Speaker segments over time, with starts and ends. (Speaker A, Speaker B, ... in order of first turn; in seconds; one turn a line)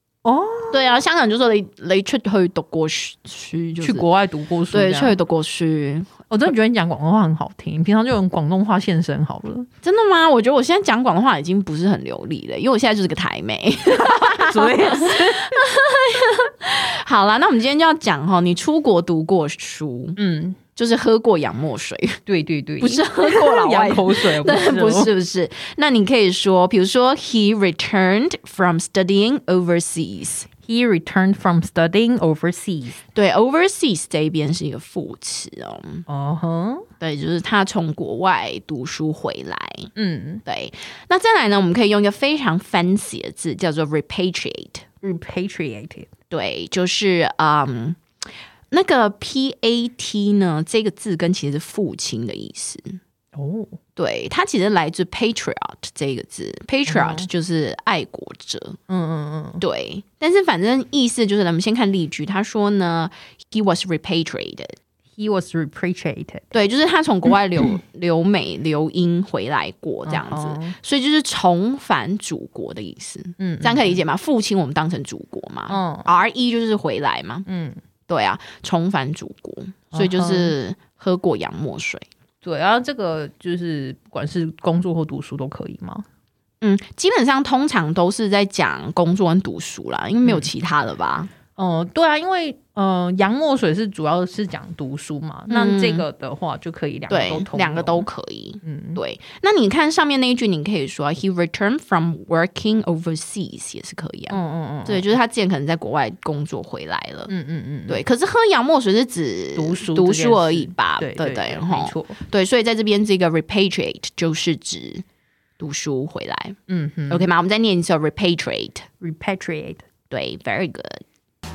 Speaker A: 0.2-1.0
Speaker B: 0.7-4.1
Speaker A: 3.8-5.1
Speaker B: 4.7-6.2
Speaker A: 6.3-9.7
Speaker B: 9.8-20.2
Speaker A: 13.9-15.6
Speaker A: 20.2-20.6
Speaker B: 20.8-22.2
Speaker A: 22.3-25.1
Speaker B: 22.8-30.5
Speaker A: 30.6-33.0
Speaker B: 33.1-36.0
Speaker A: 36.1-36.9
Speaker B: 37.0-39.9
Speaker A: 40.0-40.4
Speaker B: 40.5-44.9
Speaker A: 45.0-46.1
Speaker B: 46.3-48.0
Speaker B: 48.7-53.0
Speaker A: 53.4-53.8
Speaker B: 54.0-58.8
Speaker A: 56.9-57.3
Speaker A: 58.9-59.6
Speaker B: 59.6-64.8
Speaker A: 65.2-66.4
Speaker B: 66.5-77.5
Speaker A: 70.1-70.8
Speaker A: 73.4-74.0
Speaker A: 75.7-76.1
Speaker A: 77.5-77.8
Speaker B: 78.1-82.0
Speaker A: 79.9-80.5
Speaker A: 82.4-86.0
Speaker B: 86.6-91.3
Speaker A: 90.2-90.5
Speaker A: 91.6-98.1
Speaker B: 95.5-96.1
Speaker B: 97.1-107.3
Speaker A: 98.6-99.0
Speaker A: 104.3-105.1
Speaker A: 107.3-108.0
Speaker B: 107.9-115.0
Speaker A: 109.6-112.2
Speaker B: 115.6-116.6
Speaker A: 116.7-117.3
Speaker B: 117.1-118.9
Speaker A: 119.0-119.8
Speaker B: 120.1-121.0